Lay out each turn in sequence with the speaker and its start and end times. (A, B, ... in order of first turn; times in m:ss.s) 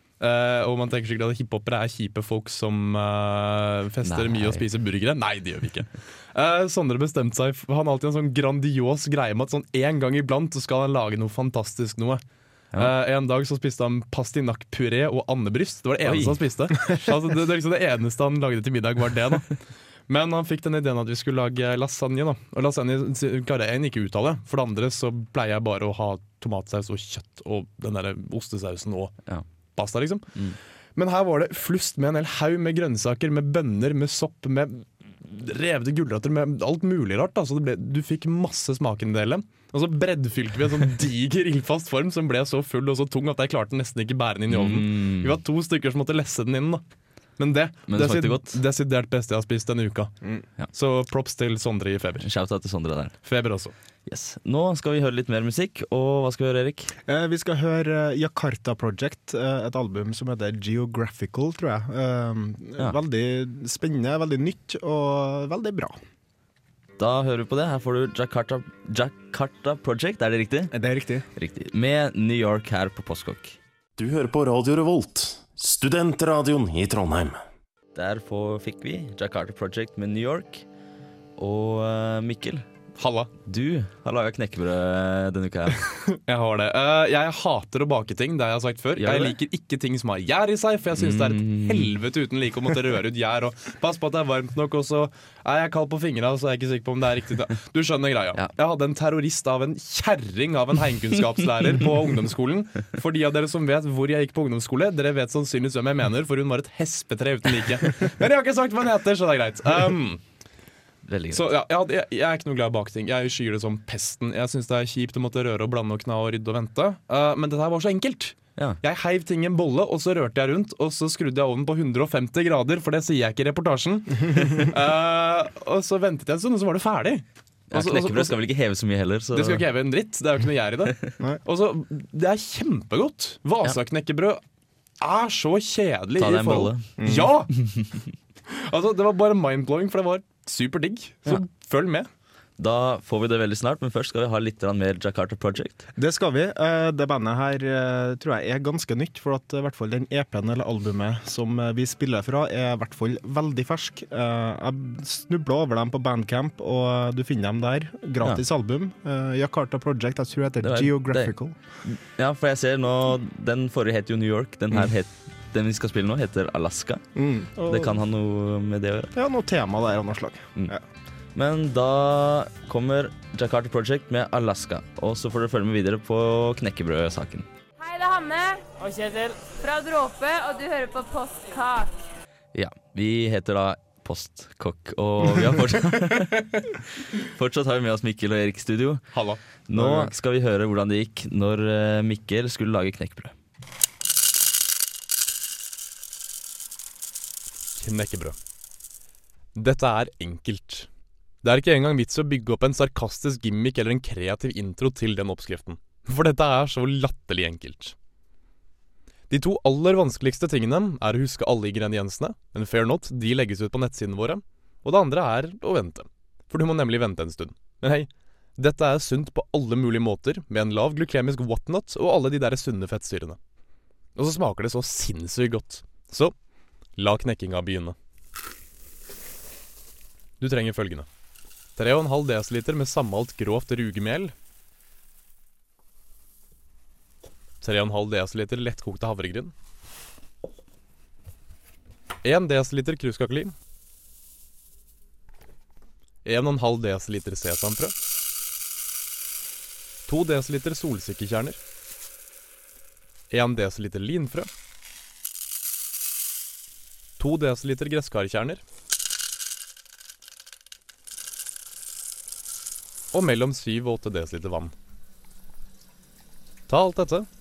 0:00.2-0:12.2 A
0:04.0-0:04.6 B
0:12.7-0:19.5 A
0:16.0-0:16.4 B
0:20.1-0:29.1 A
0:29.8-0:30.3 A
0:31.0-0:46.8 A
0:44.5-0:45.4 B
0:47.4-0:50.1 A
0:47.9-0:48.6 B
0:50.7-0:52.3 A
0:52.2-0:53.1 B
0:53.2-0:53.7 A
0:54.1-0:56.9 B
0:57.1-1:06.0 C
1:07.0-1:10.7 B
1:10.7-1:11.3 C
1:11.4-1:13.6 B
1:14.0-1:17.4 D
1:18.0-1:20.6 B
1:21.4-1:22.7 B
1:23.0-1:23.3 A
1:23.5-1:25.8 B
1:26.3-1:50.2 A
1:29.0-1:29.4 B
1:31.0-1:31.9 B
1:51.1-1:51.5 B
1:51.3-2:08.4 A
2:07.7-2:09.6 B
2:09.3-2:14.4 A
2:15.0-2:17.5 A
2:16.2-2:16.9 B
2:17.0-2:17.4 C
2:18.5-2:22.1 A
2:22.6-2:25.8 B
2:26.0-2:41.6 C
2:40.6-2:41.3 B
2:41.8-2:47.0 B
2:47.2-2:48.0 C
2:47.7-2:49.1 B
2:49.2-2:50.8 C
2:51.4-2:57.5 B
2:57.8-3:01.9 E
3:02.5-3:09.1 B
3:09.1-3:10.1 A
3:09.7-3:13.3 B
3:17.8-3:18.4 A
3:19.6-3:20.9 A
3:21.4-3:28.0 A
3:29.3-3:43.4 A
3:44.2-3:46.3 A
3:47.0-3:48.0 A
3:50.4-3:51.1 A
3:51.8-3:54.3 A
3:57.6-3:59.5 A
4:02.2-4:03.5 A
4:06.2-4:07.9 A
4:10.1-4:11.6 A
4:13.3-4:14.5 A
4:17.2-4:18.6 A
4:23.1-4:24.7 A
4:26.7-4:27.3 A